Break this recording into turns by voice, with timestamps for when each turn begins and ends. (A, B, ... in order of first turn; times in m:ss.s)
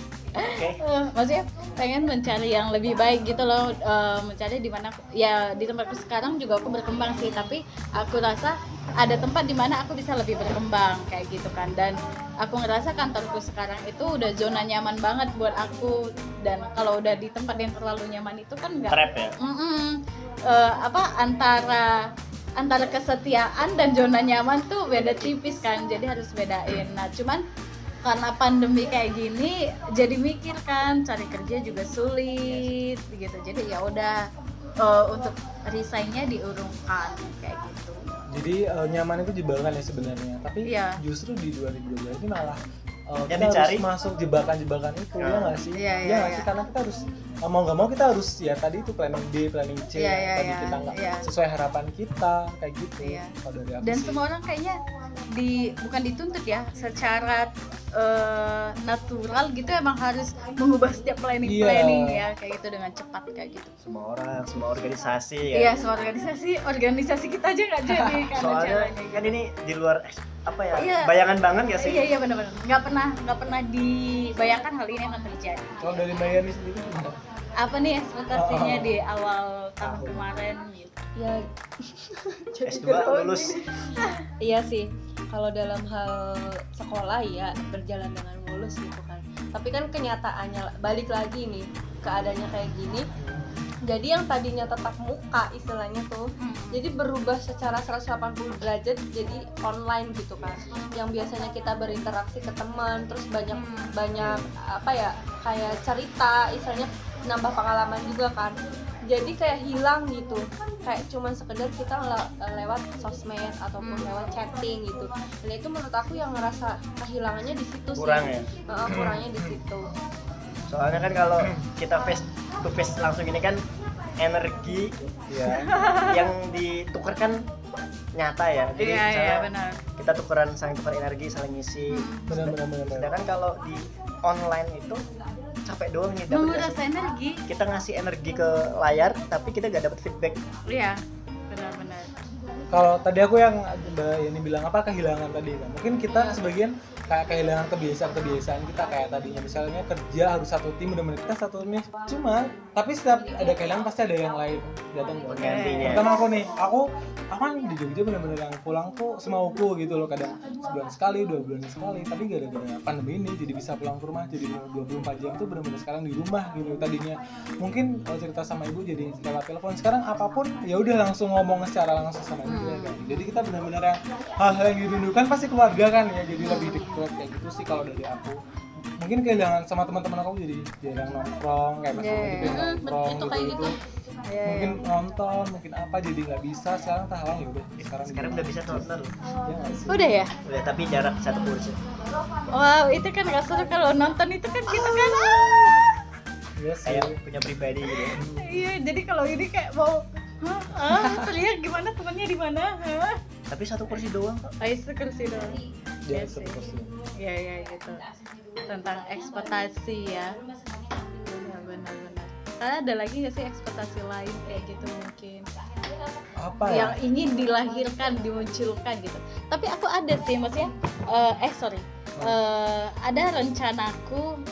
0:00.4-0:22.0 A
0:00.5-0:00.8 B
0:18.9-0:19.4 B
0:22.6-0:27.4 A
0:24.9-0:25.3 B
0:28.0-0:34.2 A
0:34.8-0:38.0 A
0:38.3-0:54.2 C
0:40.7-0:41.0 A
0:43.3-0:43.9 B
0:45.2-0:45.6 B
0:45.7-0:46.5 A
0:50.0-0:51.3 A
0:53.0-0:54.8 A
0:55.3-1:03.7 A
1:01.4-1:02.2 C
1:03.8-1:05.8 B
1:05.5-1:09.4 A
1:07.9-1:08.3 C
1:08.3-1:12.1 B
1:10.8-1:11.1 A
1:11.8-1:15.8 A
1:15.8-1:17.2 C
1:17.6-1:21.0 A
1:18.3-1:19.0 C
1:19.8-1:20.2 B
1:21.2-1:23.1 D
1:22.6-1:23.6 B
1:22.8-1:24.2 A
1:24.4-1:33.1 D
1:33.2-1:33.7 C
1:33.8-1:59.9 D
1:36.4-1:36.8 A
1:43.5-1:43.9 A
1:44.2-1:44.5 C
1:53.8-1:54.1 A
1:57.9-1:58.5 B
1:58.9-1:59.6 C
2:00.7-2:03.6 B
2:04.2-2:05.0 B
2:05.3-2:05.9 C
2:05.5-2:06.1 A
2:06.0-2:07.5 B
2:08.2-2:15.0 B
2:08.8-2:09.8 A
2:11.9-2:12.5 A
2:12.3-2:13.2 C
2:15.6-2:16.8 B
2:16.3-2:17.4 A
2:17.5-2:20.4 B
2:20.7-2:22.1 A
2:22.7-2:58.4 C
2:26.1-2:26.4 A
2:35.3-2:36.2 B
2:35.4-2:36.0 A
2:52.4-2:53.2 A
2:56.4-2:57.1 A
2:59.0-3:03.8 C
3:01.9-3:02.8 A
3:02.4-3:03.7 D
3:04.3-3:04.8 A
3:04.4-3:10.1 C
3:07.8-3:09.2 B
3:09.9-3:10.3 A
3:10.4-3:11.8 B
3:12.5-3:15.8 A
3:14.7-3:15.6 B
3:16.6-3:17.2 C
3:16.9-3:18.2 B
3:18.1-3:18.6 C
3:18.4-3:23.2 A
3:20.8-3:21.3 C
3:23.5-3:24.5 B
3:24.6-3:26.6 A
3:26.1-3:26.9 C
3:27.1-3:28.0 A
3:28.7-3:30.3 A
3:31.2-3:35.4 A
3:36.4-3:37.0 C
3:36.7-3:44.3 A